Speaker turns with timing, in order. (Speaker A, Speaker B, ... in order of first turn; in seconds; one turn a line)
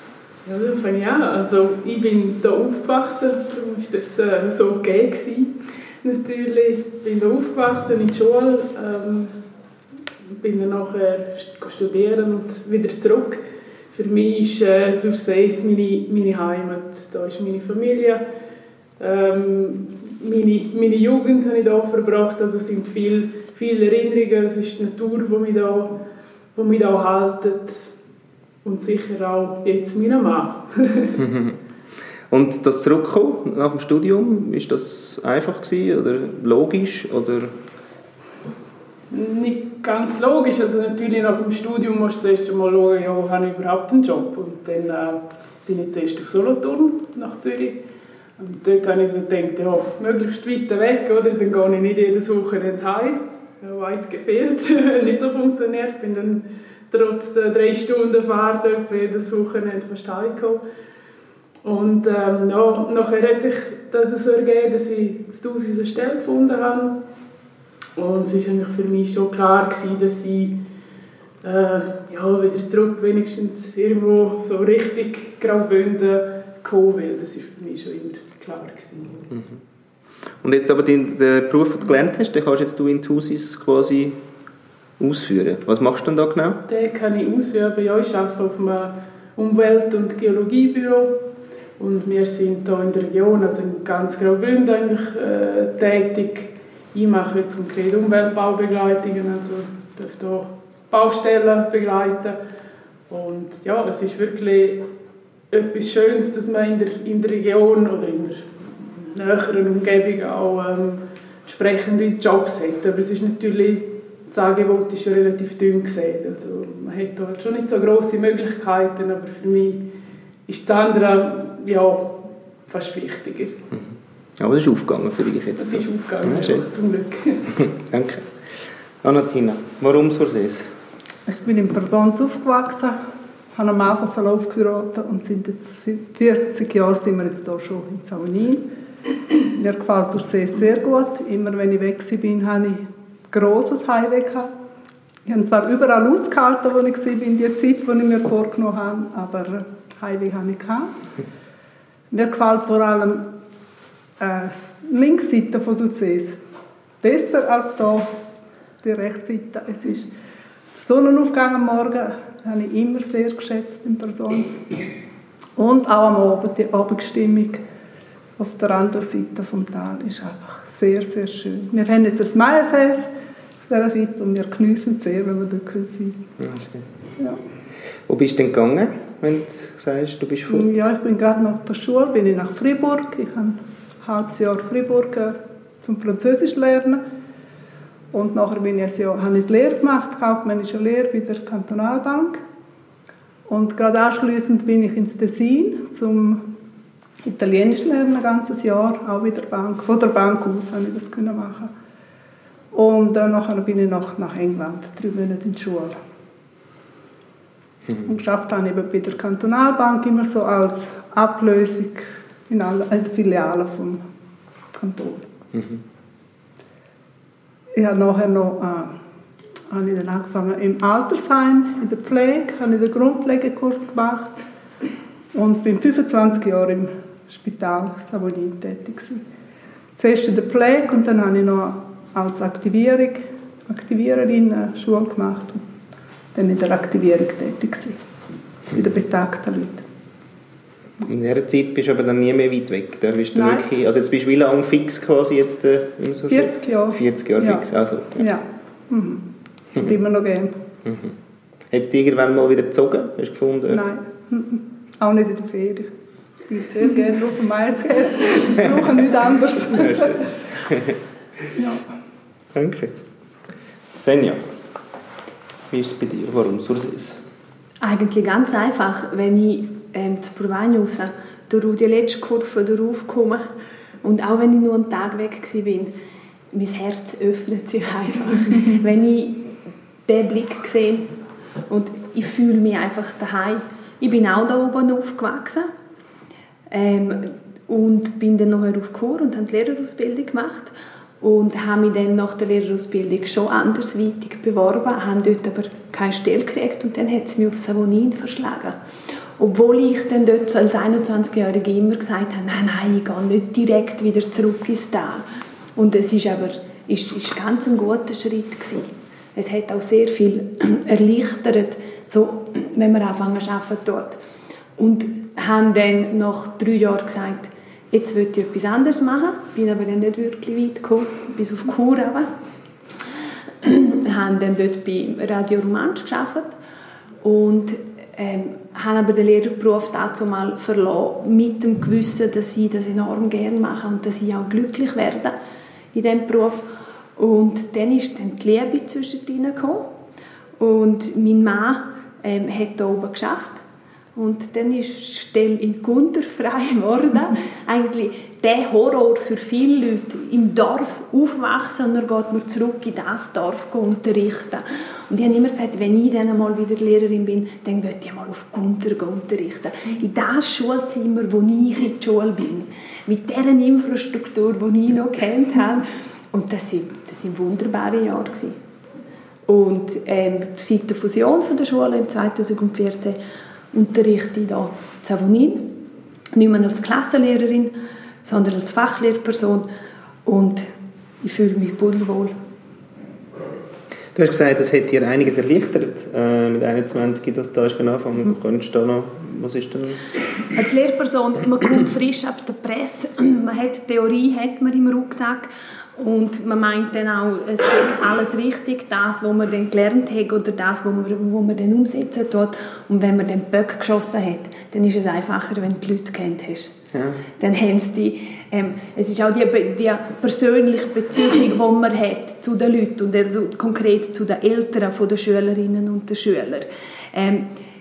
Speaker A: 0.5-9.3
Speaker A: 10.4-13.4
Speaker A: 13.9-18.2
Speaker A: 19.0-25.9
Speaker A: 26.6-27.9
Speaker A: 28.6-31.2
Speaker B: 31.2-31.6
Speaker B: 32.3-37.6
Speaker A: 39.1-47.8
Speaker A: 48.4-60.6
Speaker A: 61.6-67.0
Speaker A: 68.0-70.6
Speaker A: 71.4-79.2
Speaker B: 79.3-79.6
Speaker B: 80.4-84.2
Speaker B: 85.0-86.6
Speaker A: 86.7-91.2
Speaker A: 91.8-102.4
Speaker A: 103.1-104.8
Speaker A: 105.5-119.8
Speaker A: 120.5-123.6
Speaker B: 123.7-126.7
Speaker A: 125.6-127.5
Speaker B: 127.5-128.3
Speaker B: 129.0-130.7
Speaker C: 131.3-133.0
Speaker C: 133.5-138.7
Speaker C: 139.4-144.5
Speaker C: 145.3-151.0
Speaker C: 152.1-153.3
Speaker C: 154.2-156.4
Speaker C: 157.0-158.2
Speaker C: 158.8-160.1
Speaker C: 160.8-164.7
Speaker C: 165.6-167.6
Speaker C: 168.4-173.1
Speaker C: 173.7-176.2
Speaker B: 176.4-176.9
Speaker B: 178.1-180.7
Speaker C: 180.5-187.0
Speaker C: 188.1-192.4
Speaker C: 193.5-196.4
Speaker C: 197.2-201.7
Speaker C: 202.7-206.0
Speaker C: 208.0-214.0
Speaker C: 214.7-215.3
Speaker B: 215.5-215.8
Speaker C: 217.8-219.0
Speaker C: 219.7-224.4
Speaker C: 225.3-229.2
Speaker C: 230.0-235.7
Speaker C: 236.3-238.0
Speaker C: 238.7-239.9
Speaker B: 241.1-248.3
Speaker C: 243.3-243.7
Speaker C: 246.3-247.7
Speaker C: 248.2-250.6
Speaker B: 250.8-251.1
Speaker B: 251.7-253.8
Speaker C: 253.7-255.9
Speaker C: 256.5-260.3
Speaker B: 259.7-260.9
Speaker C: 261.6-261.8
Speaker B: 262.5-262.9
Speaker B: 264.0-264.4
Speaker B: 265.7-267.2
Speaker D: 267.8-273.4
Speaker D: 274.0-275.9
Speaker D: 276.5-279.5
Speaker D: 280.1-281.1
Speaker D: 281.7-285.7
Speaker D: 286.7-298.8
Speaker D: 299.4-305.2
Speaker D: 305.8-314.2
Speaker D: 314.8-322.3
Speaker D: 323.6-326.6
Speaker D: 327.2-335.4
Speaker D: 335.9-336.7
Speaker D: 337.2-339.9
Speaker D: 340.6-343.6
Speaker D: 344.1-368.6
Speaker D: 369.5-373.2
Speaker D: 373.7-375.8
Speaker D: 376.3-379.7
Speaker D: 380.3-380.7
Speaker D: 381.2-382.4
Speaker B: 384.1-390.0
Speaker D: 390.6-406.8
Speaker B: 406.9-407.2
Speaker D: 407.4-417.5